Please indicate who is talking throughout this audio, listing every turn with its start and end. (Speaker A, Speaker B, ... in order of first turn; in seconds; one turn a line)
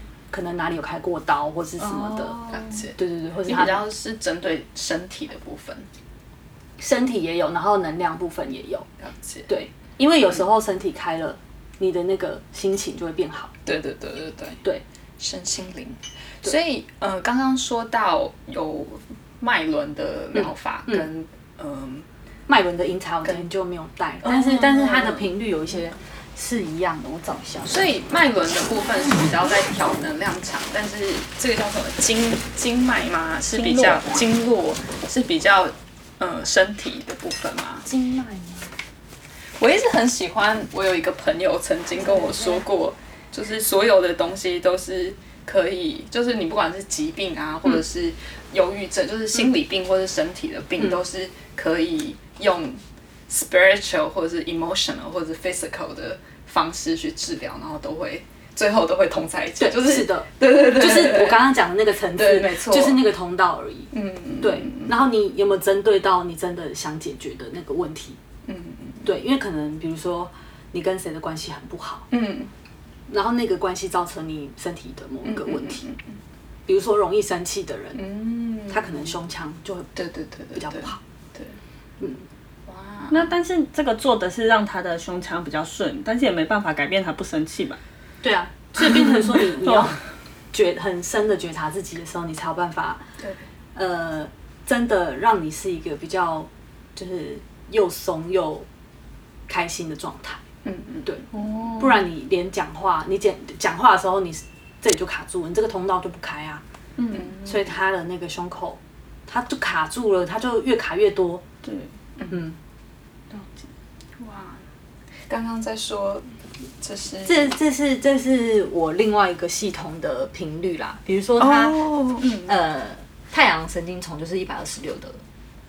Speaker A: 0.3-2.4
Speaker B: 1.8-2.8
Speaker C: 2.4-5.9
Speaker A: 3.0-3.8
Speaker A: 6.8-8.8
Speaker C: 9.0-9.5
Speaker A: 9.5-13.5
Speaker C: 13.7-14.6
Speaker C: 15.2-22.1
Speaker A: 20.3-21.1
Speaker A: 22.5-27.8
Speaker C: 24.2-25.2
Speaker C: 27.6-37.9
Speaker B: 33.5-34.1
Speaker A: 37.8-38.7
Speaker C: 39.6-61.5
Speaker A: 42.1-42.6
Speaker A: 59.6-63.9
Speaker C: 62.1-63.1
Speaker C: 63.9-64.9
Speaker A: 64.4-68.2
Speaker C: 68.5-69.0
Speaker A: 69.0-72.1
Speaker C: 72.1-72.5
Speaker A: 73.1-75.8
Speaker C: 75.2-76.1
Speaker A: 76.7-78.0
Speaker C: 77.9-79.1
Speaker A: 78.7-79.9
Speaker C: 80.0-81.5
Speaker A: 80.5-81.0
Speaker A: 82.0-82.2
Speaker C: 82.7-83.2
Speaker B: 83.1-87.8
Speaker A: 88.2-90.0
Speaker A: 90.5-93.0
Speaker A: 93.7-98.7
Speaker A: 99.5-100.4
Speaker C: 100.6-101.2
Speaker A: 101.0-106.6
Speaker B: 101.3-102.0
Speaker B: 107.0-107.3
Speaker C: 107.1-107.6
Speaker A: 107.4-111.4
Speaker B: 111.6-111.9
Speaker A: 112.3-112.6
Speaker C: 114.2-114.6
Speaker C: 115.3-116.3
Speaker C: 116.8-117.5
Speaker A: 117.2-125.2
Speaker C: 121.4-122.5